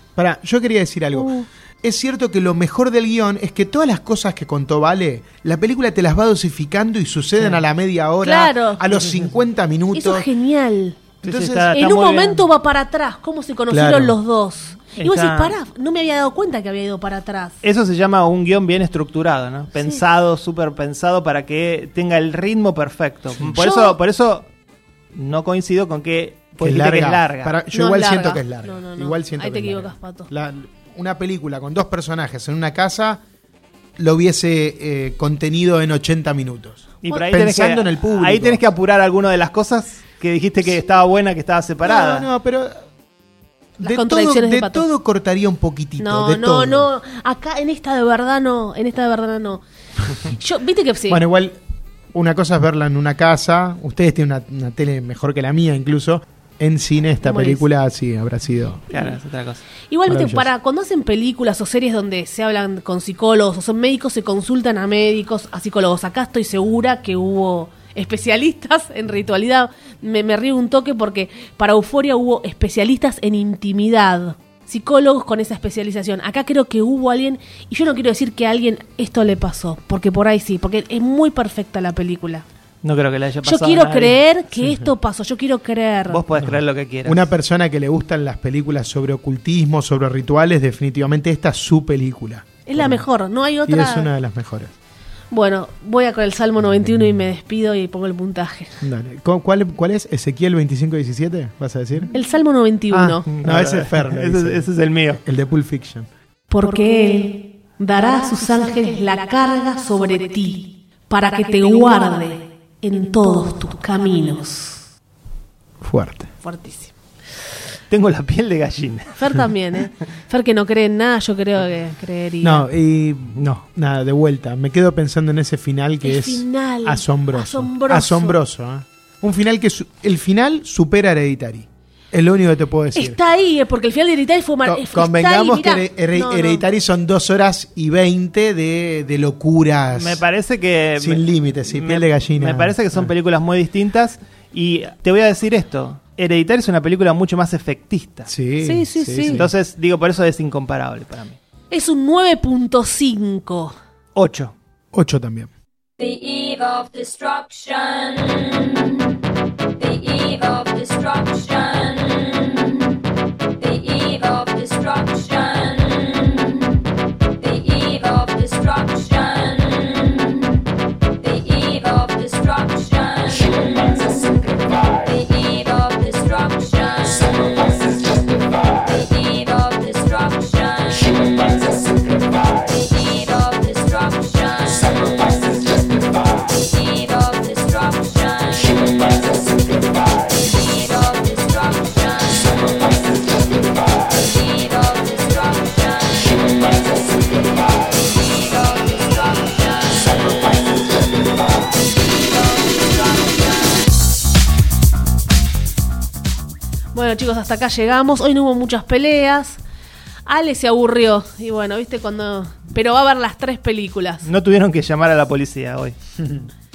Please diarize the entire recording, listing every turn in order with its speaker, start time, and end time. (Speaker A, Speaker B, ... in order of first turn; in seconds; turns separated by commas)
Speaker A: 0.2-10.3, Speaker B: 1.1-1.5, Speaker B: 8.2-9.0, Speaker B: 9.9-11.0, Speaker A: 11.2-11.8, Speaker C: 11.2-12.4, Speaker B: 11.7-17.6, Speaker A: 13.7-14.2, Speaker C: 15.0-15.6, Speaker C: 17.6-24.5, Speaker B: 19.8-20.0, Speaker B: 23.6-24.0, Speaker C: 25.1-27.5, Speaker A: 26.6-33.2, Speaker B: 27.7-30.3, Speaker A: 34.0-38.6, Speaker C: 37.0-42.3, Speaker A: 41.8-42.8, Speaker B: 43.8-44.9, Speaker A: 43.8-46.9, Speaker B: 46.0-49.6, Speaker B: 50.2-51.2, Speaker A: 51.1-51.6, Speaker A: 52.1-58.9, Speaker B: 57.2-57.6, Speaker B: 58.9-59.2, Speaker C: 58.9-59.6, Speaker B: 59.9-82.5, Speaker A: 60.1-60.5, Speaker C: 82.8-84.2, Speaker B: 83.5-86.2, Speaker A: 84.6-84.9, Speaker C: 86.1-87.3, Speaker A: 86.4-93.0, Speaker B: 92.7-94.1, Speaker A: 93.7-94.7, Speaker B: 95.3-98.8, Speaker A: 98.8-102.1, Speaker B: 102.1-103.3, Speaker A: 102.9-104.7, Speaker C: 103.3-105.2, Speaker A: 105.2-106.1, Speaker B: 106.5-114.8, Speaker A: 115.8-116.3, Speaker B: 116.4-116.9, Speaker C: 117.9-119.5, Speaker B: 119.2-122.7, Speaker A: 122.4-133.2, Speaker C: 123.3-123.6, Speaker B: 126.0-128.4, Speaker B: 132.9-136.7, Speaker A: 134.7-140.2, Speaker C: 139.9-148.3, Speaker A: 141.0-143.1, Speaker A: 148.3-149.5, Speaker B: 148.6-149.4, Speaker C: 149.3-151.4, Speaker B: 151.7-153.8, Speaker C: 154.2-154.5, Speaker A: 154.9-155.5, Speaker D: 156.0-159.2, Speaker D: 159.8-163.0, Speaker D: 163.6-170.7, Speaker D: 171.2-203.8, Speaker B: 206.9-209.6, Speaker B: 210.3-214.3, Speaker C: 214.2-215.9, Speaker A: 216.2-216.5